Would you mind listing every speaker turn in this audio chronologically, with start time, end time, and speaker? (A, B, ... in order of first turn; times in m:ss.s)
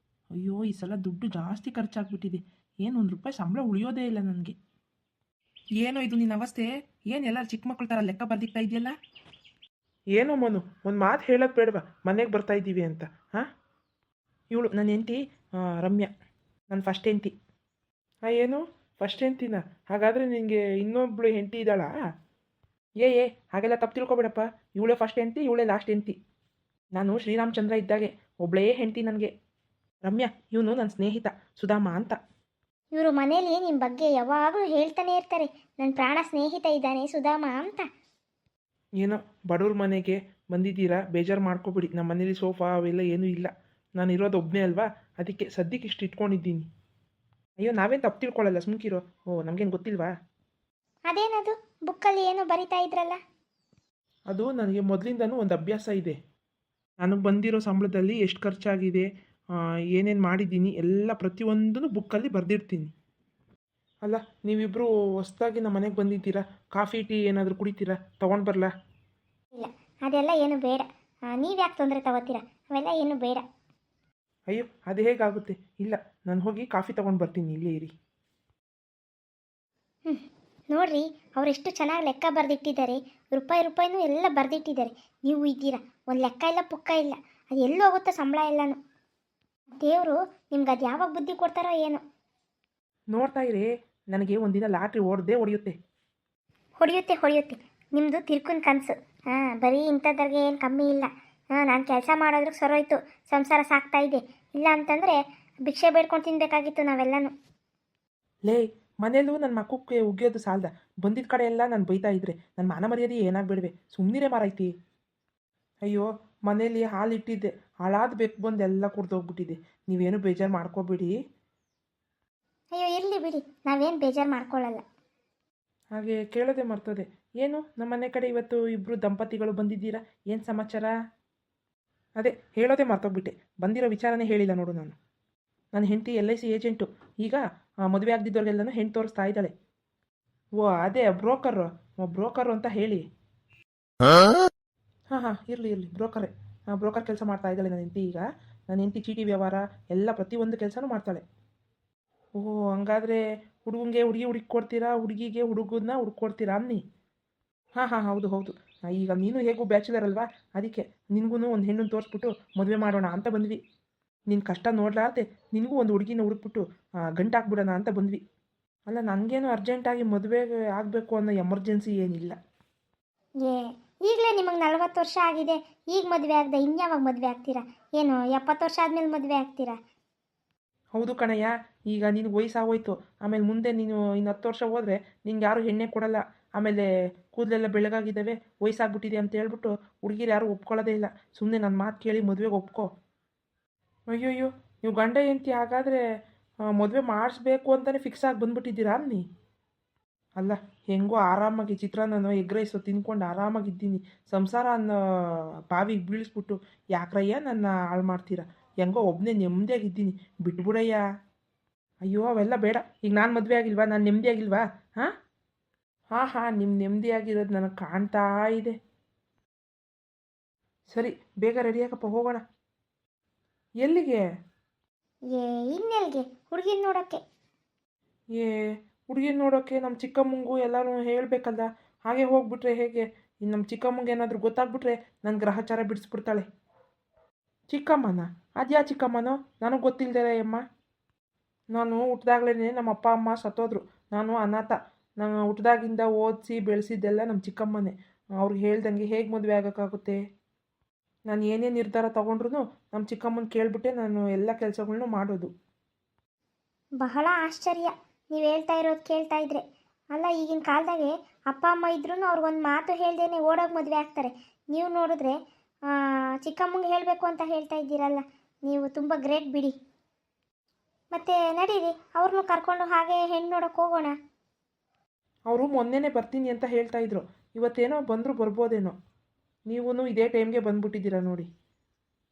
0:00.3-0:04.6 A
0:05.8-0:08.9 A
0:10.2-0:13.4 A
0:14.5-0:16.1 A
0:16.7-0:17.3 A
0:18.2-0:21.9 A
0:23.0-0:26.1 A
0:26.9-0:29.3 A
0:30.0-0:32.2 A
0:32.9-0:37.9 B
0:39.0-0:46.6 A
0:47.6-0:50.1 A
0:51.1-0:53.2 B
0:54.3-0:56.2 A
0:57.0-0:59.1 A
0:59.9-1:02.9 A
1:04.0-1:08.7 A
1:09.5-1:13.4 B
1:14.5-1:17.9 A
1:20.1-1:28.8 B
1:29.8-1:32.0 B
1:33.1-1:35.7 A
1:36.8-1:47.3 B
1:48.5-1:54.7 A
1:55.8-2:01.1 A
2:02.7-2:04.8 B
2:06.0-2:10.9 A
2:12.2-2:15.0 A
2:15.7-2:19.5 A
2:20.6-2:23.0 A
2:25.1-2:31.2 A
2:32.4-2:36.8 A
2:37.8-2:43.6 A
2:44.3-2:46.6 A
2:47.1-2:48.2 A
2:48.9-2:52.4 A
2:53.4-2:59.8 B
3:00.9-3:12.9 A
3:14.1-3:16.0 A
3:16.7-3:19.2 A
3:20.4-3:31.0 A
3:32.0-3:35.1 A
3:36.1-3:38.7 A
3:40.9-3:42.4 A
3:43.8-3:44.2 A
3:45.3-3:47.2 B
3:48.3-3:56.5 A
3:57.7-4:00.6 A
4:01.7-4:10.2 A
4:11.3-4:15.5 A
4:17.0-4:19.6 B
4:20.1-4:25.4 B
4:25.9-4:29.7 B
4:31.1-4:34.1 B
4:35.5-4:38.9 A
4:39.7-4:41.5 A